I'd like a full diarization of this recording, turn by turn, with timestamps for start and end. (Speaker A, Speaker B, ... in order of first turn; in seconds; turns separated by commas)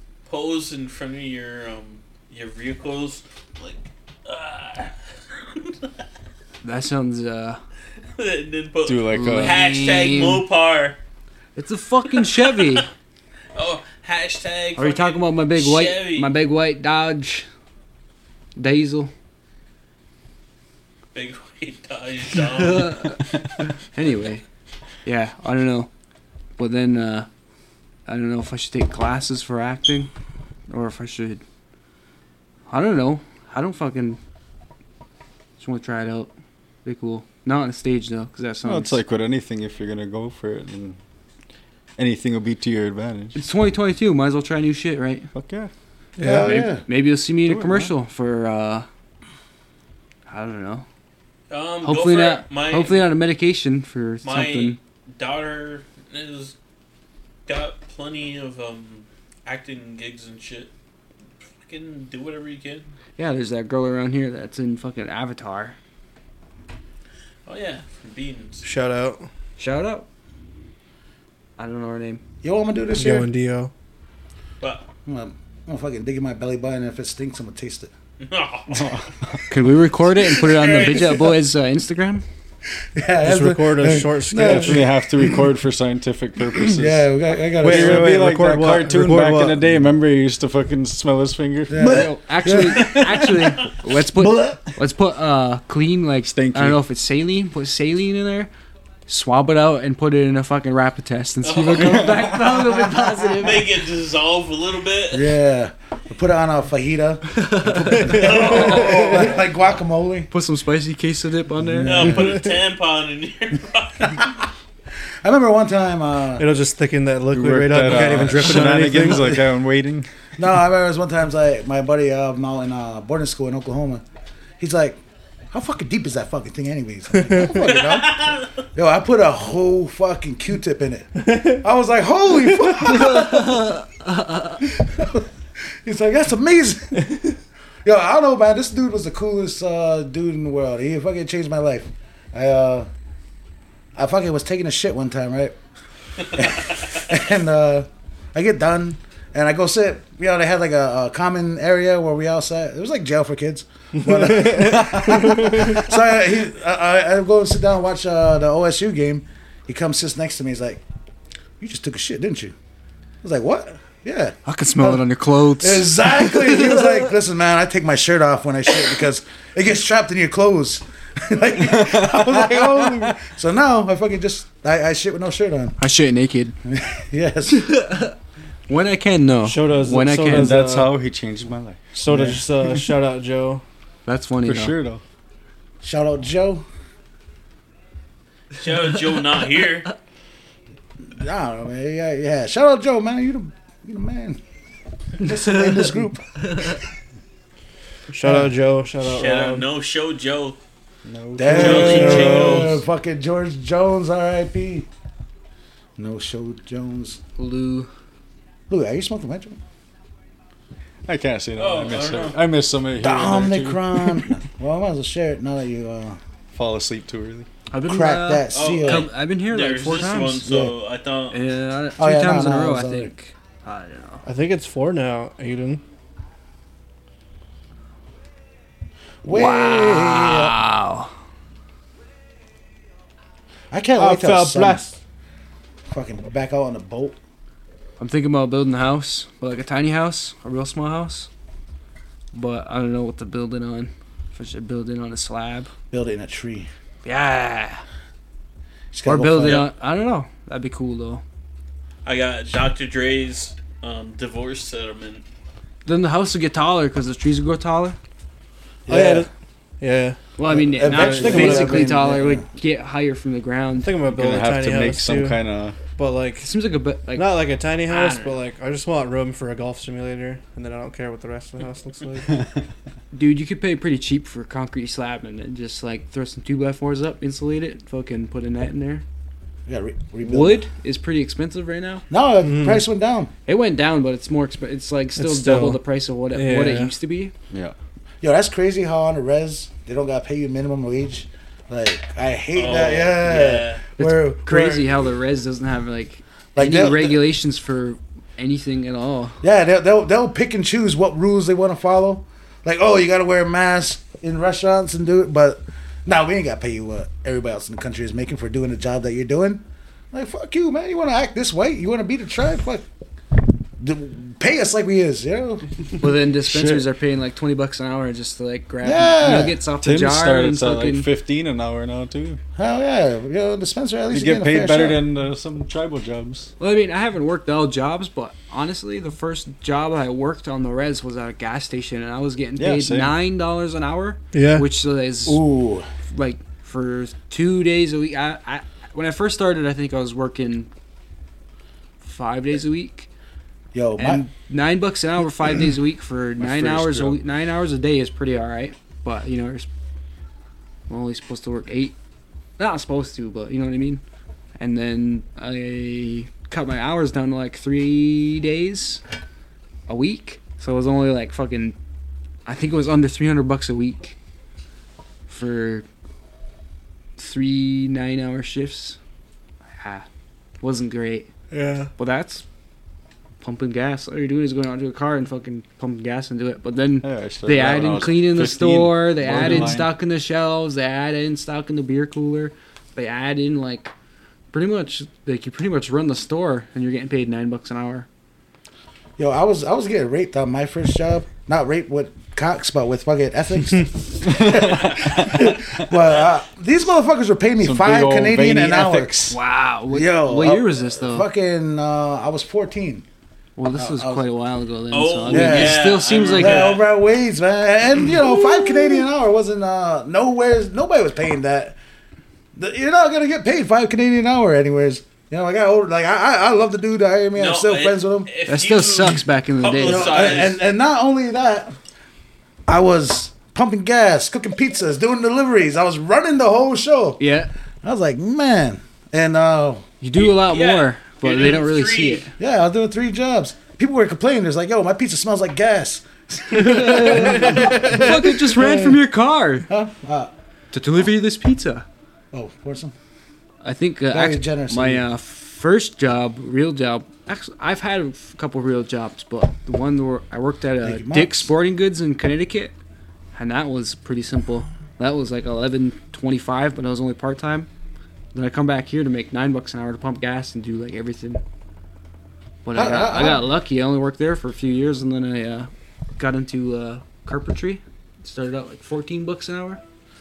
Speaker A: 0.3-5.0, Speaker A: 5.5-5.8, Speaker B: 6.6-7.6, Speaker A: 8.2-11.0, Speaker C: 8.9-9.6, Speaker B: 9.1-10.4, Speaker B: 11.6-12.9, Speaker A: 12.1-12.8, Speaker A: 13.6-16.3, Speaker B: 14.8-17.5, Speaker B: 18.6-19.1, Speaker A: 21.1-23.2, Speaker B: 22.4-23.2, Speaker B: 23.9-24.4, Speaker B: 25.1-25.9, Speaker B: 26.6-27.3, Speaker B: 28.1-30.1, Speaker B: 30.7-31.4, Speaker B: 32.7-34.2, Speaker B: 35.6-36.3, Speaker B: 36.9-39.0, Speaker C: 38.6-41.0, Speaker C: 42.0-43.4, Speaker B: 43.3-45.3, Speaker C: 45.3-45.7, Speaker D: 46.2-46.8, Speaker E: 46.2-46.6, Speaker B: 46.3-48.9, Speaker C: 47.5-47.9, Speaker B: 50.3-50.9, Speaker A: 51.5-53.1, Speaker B: 51.8-54.8, Speaker A: 54.2-56.5, Speaker A: 57.5-60.7, Speaker A: 61.6-62.9, Speaker B: 63.2-65.8, Speaker A: 67.5-68.6, Speaker E: 68.6-69.3, Speaker B: 69.6-70.1, Speaker B: 71.6-72.2, Speaker D: 72.4-73.3, Speaker E: 73.0-73.7, Speaker D: 75.1-77.9, Speaker A: 78.2-79.1, Speaker C: 78.7-79.3, Speaker B: 79.5-82.2, Speaker A: 80.1-81.2, Speaker D: 83.0-85.4, Speaker E: 83.2-84.9, Speaker C: 84.4-87.1, Speaker D: 86.5-88.2, Speaker E: 87.6-89.9, Speaker C: 87.6-92.5, Speaker D: 91.7-93.0, Speaker B: 91.8-98.5, Speaker A: 92.8-93.7, Speaker C: 94.5-94.7, Speaker C: 96.3-96.8, Speaker B: 99.1-103.7, Speaker A: 101.4-102.5, Speaker A: 103.2-105.3, Speaker D: 105.1-110.3, Speaker B: 107.4-108.4, Speaker E: 108.0-108.3, Speaker A: 108.1-109.3, Speaker B: 110.3-112.2, Speaker D: 111.6-112.4, Speaker A: 111.8-114.4, Speaker D: 115.2-116.5, Speaker E: 116.4-119.5, Speaker C: 117.3-120.1, Speaker D: 120.4-124.0, Speaker D: 124.6-125.0, Speaker D: 125.5-133.7, Speaker E: 127.2-127.5, Speaker A: 127.5-128.5, Speaker B: 132.9-133.8, Speaker D: 134.6-135.3, Speaker D: 135.8-137.1, Speaker D: 137.8-142.9, Speaker D: 144.0-145.6, Speaker D: 146.3-160.8, Speaker A: 146.4-146.9, Speaker E: 154.0-155.8, Speaker D: 161.6-162.6, Speaker D: 163.2-165.1, Speaker B: 164.5-166.9, Speaker D: 165.6-175.8, Speaker C: 171.7-173.1, Speaker B: 175.8-176.6, Speaker D: 176.7-177.7, Speaker B: 177.5-178.1, Speaker B: 178.7-180.6, Speaker E: 179.4-180.9, Speaker C: 180.3-182.9, Speaker E: 181.9-183.6, Speaker B: 184.1-184.8, Speaker C: 184.4-185.0, Speaker D: 185.8-186.6, Speaker A: 188.6-189.9, Speaker D: 191.1-194.4, Speaker D: 195.2-196.8, Speaker E: 198.1-199.7, Speaker D: 198.2-198.5, Speaker A: 199.0-200.6, Speaker C: 201.1-202.3, Speaker D: 201.4-204.9, Speaker E: 201.5-202.7, Speaker A: 201.6-202.8, Speaker D: 206.0-207.2, Speaker B: 207.4-207.9, Speaker D: 208.7-209.6, Speaker C: 211.1-214.2, Speaker A: 211.6-212.4, Speaker D: 213.0-216.2, Speaker C: 216.5-217.5, Speaker B: 217.7-220.5, Speaker D: 217.9-219.1, Speaker A: 218.5-221.4, Speaker D: 220.4-220.8, Speaker B: 221.3-224.2, Speaker D: 222.0-223.1, Speaker E: 224.2-225.8, Speaker D: 229.2-230.6, Speaker B: 229.3-231.1, Speaker D: 233.7-234.9, Speaker E: 234.0-234.9, Speaker D: 235.9-237.2, Speaker B: 238.0-241.3, Speaker B: 242.3-245.7, Speaker D: 245.9-246.7, Speaker B: 247.0-247.8, Speaker D: 248.9-249.7, Speaker B: 249.0-251.2, Speaker A: 249.4-249.7, Speaker A: 252.1-255.2, Speaker B: 255.9-258.0, Speaker D: 258.9-259.3, Speaker E: 258.9-259.3, Speaker E: 259.8-260.2, Speaker B: 260.4-263.9, Speaker D: 260.5-262.5, Speaker E: 261.1-261.9, Speaker E: 263.8-266.5, Speaker C: 264.1-265.8, Speaker B: 266.4-268.4, Speaker E: 267.1-272.4, Speaker B: 273.1-279.0, Speaker D: 279.7-280.7, Speaker B: 280.2-282.1, Speaker D: 282.1-283.3, Speaker E: 282.4-282.8, Speaker B: 283.5-287.3, Speaker E: 285.2-285.8, Speaker E: 286.3-286.9, Speaker D: 288.2-295.0, Speaker A: 292.6-293.9, Speaker B: 294.0-299.4, Speaker D: 296.6-297.2, Speaker D: 299.4-312.9, Speaker D: 313.8-315.7, Speaker B: 316.0-321.1, Speaker C: 316.4-316.9, Speaker D: 318.8-319.6, Speaker C: 319.7-322.4, Speaker D: 322.6-325.0, Speaker C: 324.1-326.5, Speaker B: 326.6-335.4, Speaker C: 332.6-333.1, Speaker E: 334.3-334.7, Speaker D: 335.3-335.9, Speaker B: 336.1-340.7, Speaker B: 342.0-343.1, Speaker D: 343.7-344.3, Speaker B: 344.0-349.7, Speaker C: 346.4-347.2, Speaker B: 350.9-351.9, Speaker B: 352.6-354.0, Speaker B: 354.6-359.0, Speaker B: 359.9-361.8, Speaker B: 362.5-364.2, Speaker B: 365.3-365.9, Speaker B: 367.2-369.0, Speaker B: 369.8-370.1, Speaker B: 370.6-371.3, Speaker E: 371.5-371.9, Speaker B: 372.0-372.4, Speaker B: 373.4-383.9, Speaker C: 377.0-379.9, Speaker E: 379.4-379.7, Speaker B: 384.5-388.1, Speaker D: 389.2-399.4, Speaker C: 394.2-395.8, Speaker C: 397.6-399.3, Speaker B: 399.3-401.3, Speaker D: 399.9-403.1, Speaker B: 403.6-406.8, Speaker D: 403.8-404.2, Speaker A: 404.9-406.8, Speaker D: 405.3-411.8, Speaker D: 412.6-418.3, Speaker A: 417.4-420.6, Speaker B: 418.5-420.4, Speaker D: 419.8-421.8, Speaker D: 422.7-427.2, Speaker B: 427.2-427.5, Speaker D: 427.8-429.9, Speaker B: 430.0-432.3, Speaker A: 430.1-432.3, Speaker D: 432.4-439.0, Speaker B: 436.5-439.7, Speaker D: 439.7-440.3, Speaker B: 440.7-441.9, Speaker D: 442.3-442.9, Speaker B: 443.6-452.8, Speaker D: 444.1-445.1, Speaker D: 450.8-451.5, Speaker B: 453.4-457.7, Speaker B: 458.3-461.4, Speaker B: 462.6-469.8, Speaker D: 462.7-463.5